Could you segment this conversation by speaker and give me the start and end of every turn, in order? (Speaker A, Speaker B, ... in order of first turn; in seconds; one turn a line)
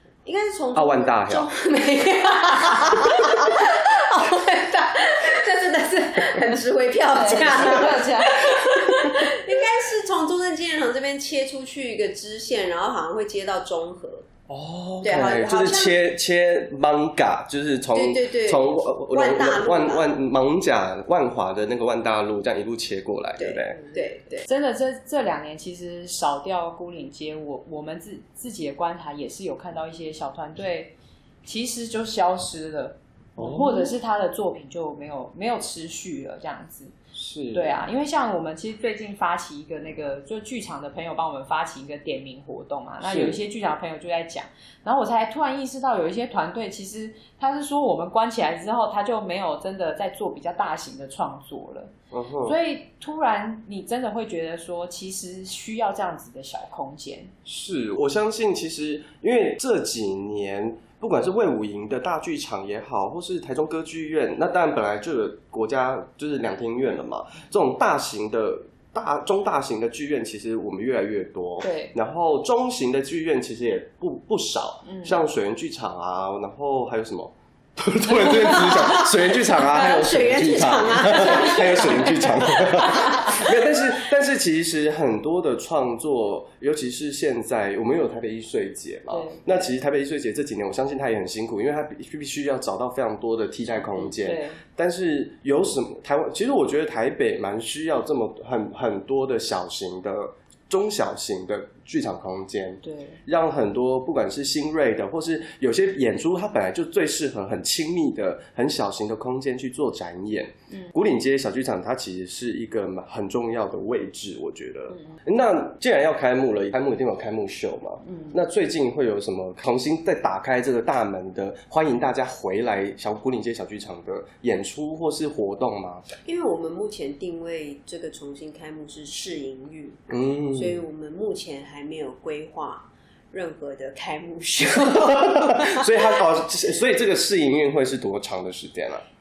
Speaker A: 0.2-14.3
Speaker B: 0.7-1.5
Speaker C: 7.1-9.4
Speaker B: 14.5-23.8
Speaker A: 15.0-16.0
Speaker A: 17.9-20.1
Speaker A: 23.4-24.5
Speaker C: 24.4-36.9
Speaker B: 33.4-33.9
Speaker B: 37.1-37.7
Speaker C: 37.5-51.9
Speaker B: 43.0-43.4
Speaker B: 52.1-52.5
Speaker C: 52.4-57.3
Speaker B: 57.4-126.0
Speaker C: 71.6-71.9
Speaker C: 74.8-75.2
Speaker A: 78.1-83.5
Speaker C: 89.1-89.5
Speaker C: 93.7-94.6
Speaker C: 102.8-103.2
Speaker C: 110.7-110.9
Speaker C: 114.9-115.2
Speaker C: 118.0-118.4
Speaker A: 126.2-136.1
Speaker B: 130.1-130.8
Speaker B: 135.0-139.0